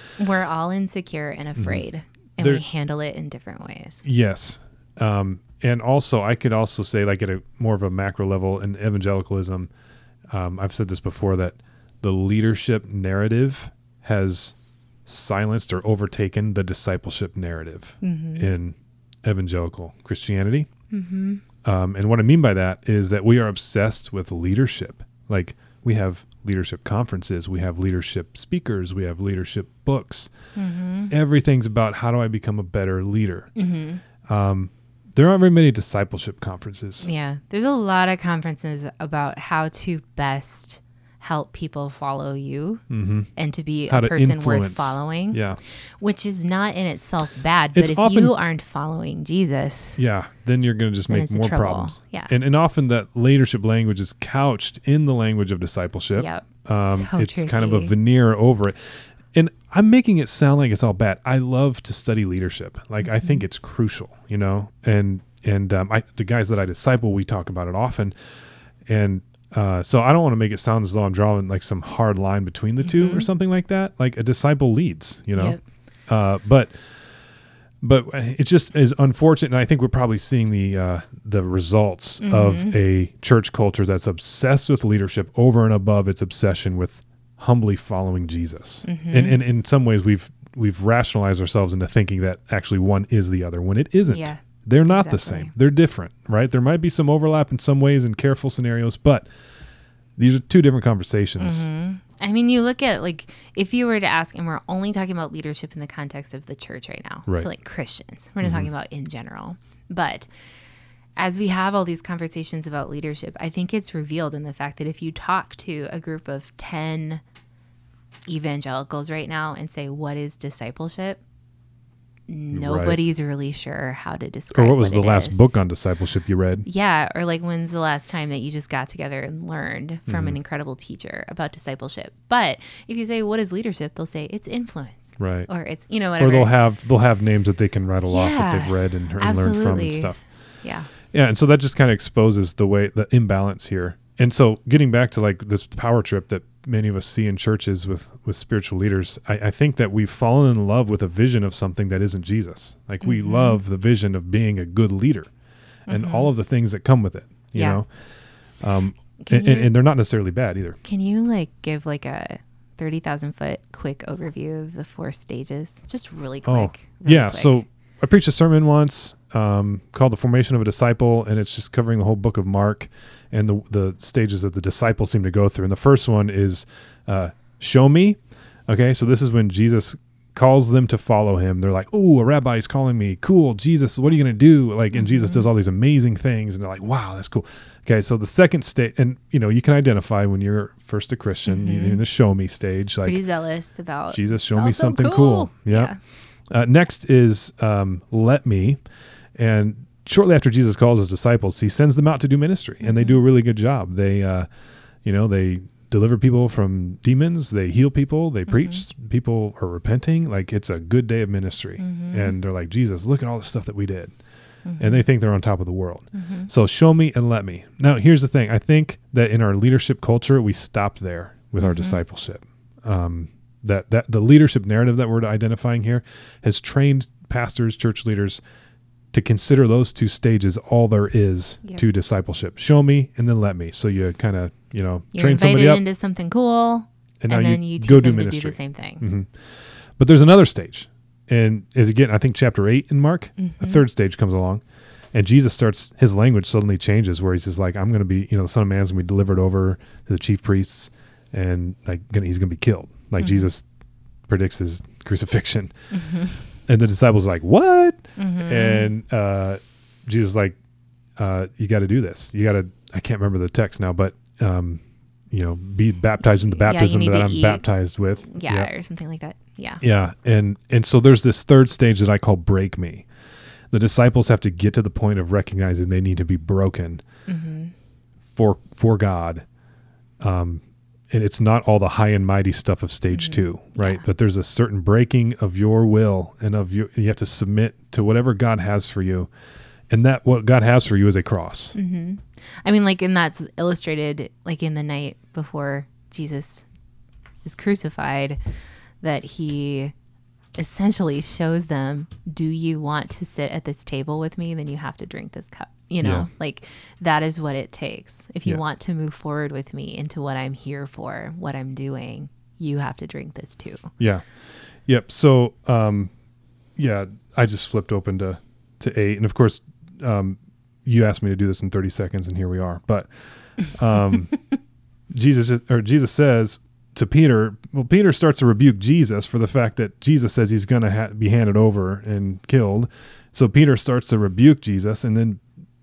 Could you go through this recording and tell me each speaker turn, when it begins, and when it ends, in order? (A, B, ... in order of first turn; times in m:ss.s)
0:00.2-0:04.0 A
0:01.6-0:01.8 B
0:04.0-0:09.7 B
0:10.3-0:20.7 B
0:18.0-0:18.5 A
0:20.9-0:21.4 A
0:21.6-0:30.3 B
0:30.6-0:31.1 A
0:31.1-0:33.5 B
0:33.6-0:34.0 A
0:34.3-0:37.1 B
0:37.0-0:50.0 A
0:42.9-0:43.3 B
0:43.9-0:45.6 B
0:47.7-0:48.3 B
0:50.0-1:08.1 B
0:51.1-0:52.3 A
0:56.2-0:57.9 A
1:03.1-1:03.4 A
1:08.9-1:16.9 B
1:12.8-1:13.3 A
1:15.4-1:15.6 A
1:17.8-1:39.3 B
1:22.2-1:22.7 A
1:28.8-1:29.4 A
1:34.1-1:35.5 A
1:40.2-1:41.6 B
1:41.4-1:50.3 A
1:48.4-1:48.7 B
1:51.2-1:57.2 A
1:58.3-2:01.2 A
2:02.3-2:05.6 A
2:02.5-2:03.0 B
2:04.5-2:06.7 B
2:06.6-2:16.5 A
2:10.1-2:10.4 B
2:15.2-2:15.5 B
2:16.2-2:20.4 B
2:18.1-2:20.9 A
2:20.9-2:35.3 B
2:33.0-2:33.6 A
2:35.9-2:40.8 B
2:35.9-2:36.3 A
2:37.5-2:37.8 A
2:39.2-2:39.7 A
2:40.8-2:47.6 A
2:46.4-3:13.2 B
3:04.9-3:05.5 A
3:11.4-3:12.0 A
3:13.0-3:16.0 A
3:14.1-3:24.5 B
3:22.8-3:23.2 A
3:25.0-3:34.2 B
3:28.5-3:28.8 A
3:31.8-3:32.3 A
3:34.6-3:35.0 A
3:34.8-3:48.4 B
3:36.1-3:36.5 A
3:41.6-3:42.0 A
3:49.1-3:55.8 B
3:55.1-3:59.0 A
3:57.2-4:13.7 B
4:03.4-4:03.8 A
4:13.2-4:13.5 A
4:14.3-4:15.8 B
4:15.9-4:16.4 A
4:16.7-4:20.6 B
4:18.2-4:18.9 A
4:21.2-4:28.7 B
4:26.5-4:27.6 A
4:28.2-4:29.8 A
4:29.8-4:33.1 B
4:33.7-4:37.0 B
4:37.3-4:37.7 A
4:38.3-4:39.4 B
4:40.2-4:49.3 B
4:43.1-4:44.0 A
4:49.9-4:51.8 B
4:51.7-4:56.7 A
4:57.4-4:58.4 A
4:59.0-4:59.9 A
5:00.6-5:13.9 A
5:06.0-5:06.3 B
5:14.0-5:16.1 B
5:16.7-5:24.4 B
5:25.1-5:35.4 B